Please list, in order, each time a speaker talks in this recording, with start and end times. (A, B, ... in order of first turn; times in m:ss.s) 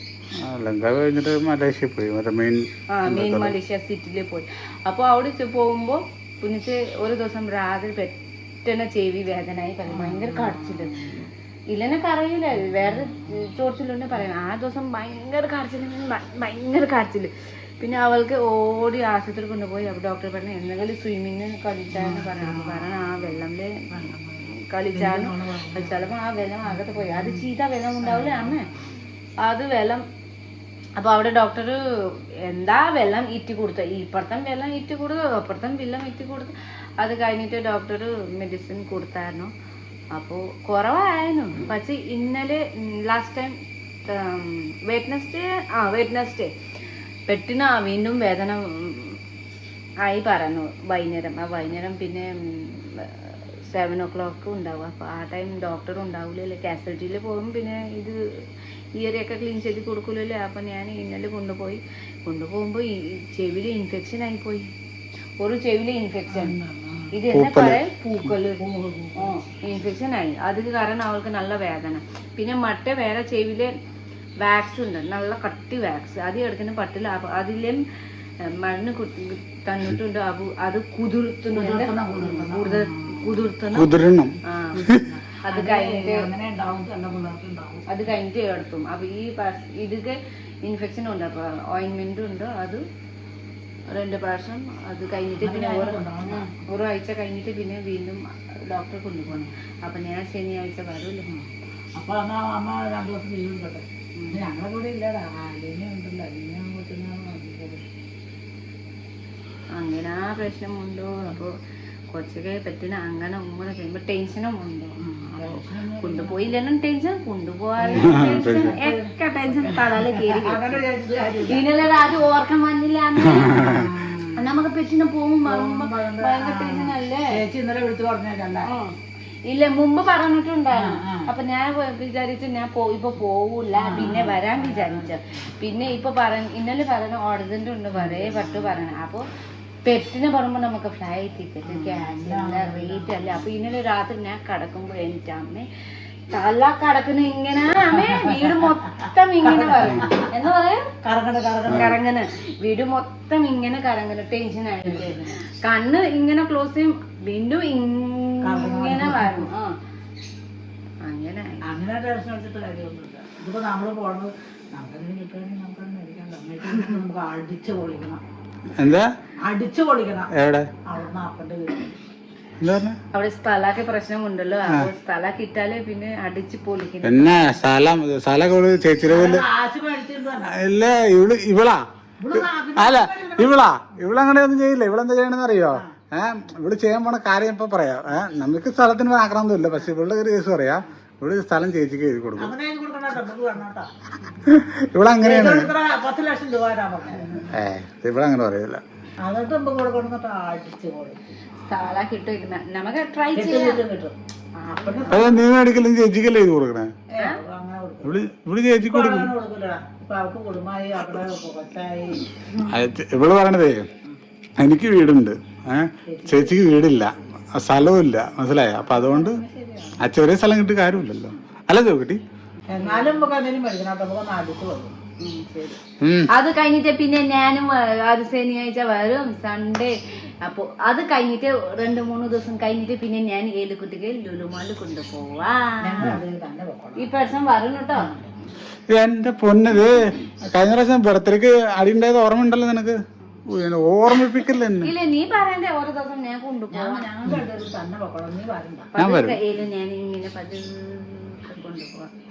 0:00.4-0:03.6 A
0:02.9-0:23.8 B
0:09.9-0:11.3 C
0:12.6-0:13.5 C
0:21.9-0:26.1 C
0:24.4-0:28.7 B
0:26.6-0:27.5 C
0:28.0-0:29.0 C
0:29.4-0:30.0 B
0:31.0-0:39.5 B
0:40.1-0:43.6 B
0:44.1-0:46.5 B
0:47.3-0:49.2 B
0:50.0-0:58.2 B
0:59.0-1:04.6 B
1:05.4-1:06.6 B
1:06.3-1:07.1 C
1:07.1-1:08.6 B
1:07.3-1:07.8 A
1:08.6-1:09.3 C
1:09.2-1:13.7 B
1:14.4-1:17.8 B
1:18.4-1:23.9 B
1:21.5-1:23.5 C
1:23.7-1:24.4 A
1:24.4-1:26.3 B
1:24.7-1:28.1 C
1:27.9-1:32.8 B
1:33.9-1:41.3 B
1:35.4-1:36.5 C
1:41.3-1:47.8 C
1:44.2-1:44.5 B
1:49.7-1:51.5 B
1:52.1-2:00.8 B
1:55.0-1:56.5 C
1:57.8-2:01.7 C
1:57.9-1:58.8 A
2:01.4-2:07.4 B
2:03.2-2:03.8 A
2:03.6-2:04.5 C
2:05.4-2:08.7 C
2:08.6-2:08.9 B
2:09.5-2:19.3 B
2:10.8-2:11.3 C
2:13.8-2:15.5 C
2:17.9-2:18.9 C
2:19.8-2:25.7 B
2:21.6-2:23.4 C
2:26.3-2:30.8 B
2:27.9-2:28.6 C
2:29.4-2:30.3 C
2:31.0-2:32.0 C
2:31.7-2:39.8 B
2:34.8-2:35.3 C
2:38.4-2:39.5 C
2:41.0-2:41.6 B
2:41.7-2:48.2 C
2:48.7-2:49.1 A
2:49.4-2:50.3 C
2:50.3-2:50.7 A
2:50.8-2:52.0 C
2:52.6-2:53.0 A
2:53.1-2:57.4 B
2:57.0-2:59.4 A
2:59.1-3:00.6 C
3:00.4-3:12.5 A
3:02.2-3:03.6 C
3:12.4-3:14.4 C
3:14.4-3:15.7 A
3:15.2-3:17.5 C
3:17.2-3:17.4 B
3:17.5-3:18.8 A
3:19.2-3:21.2 C
3:21.6-3:23.8 B
3:23.3-3:24.2 C
3:24.6-3:25.4 B
3:24.7-3:25.4 C
3:25.1-3:26.9 A
3:27.1-3:28.2 C
3:28.0-3:29.3 A
3:28.8-3:32.3 C
3:32.6-3:33.9 A
3:34.6-3:39.4 A
3:36.0-3:36.6 C
3:38.8-3:40.0 C
3:40.0-3:42.2 A
3:42.7-3:45.0 C
3:42.7-3:43.3 B
3:45.2-3:56.2 B
3:46.0-3:46.3 A
3:55.8-3:57.1 C
3:57.0-3:58.1 B
3:58.0-3:58.3 C
3:58.9-4:03.0 A
4:03.5-4:04.9 A
4:04.8-4:07.1 B
4:06.7-4:08.9 C
4:08.9-4:12.1 B
4:09.0-4:09.4 A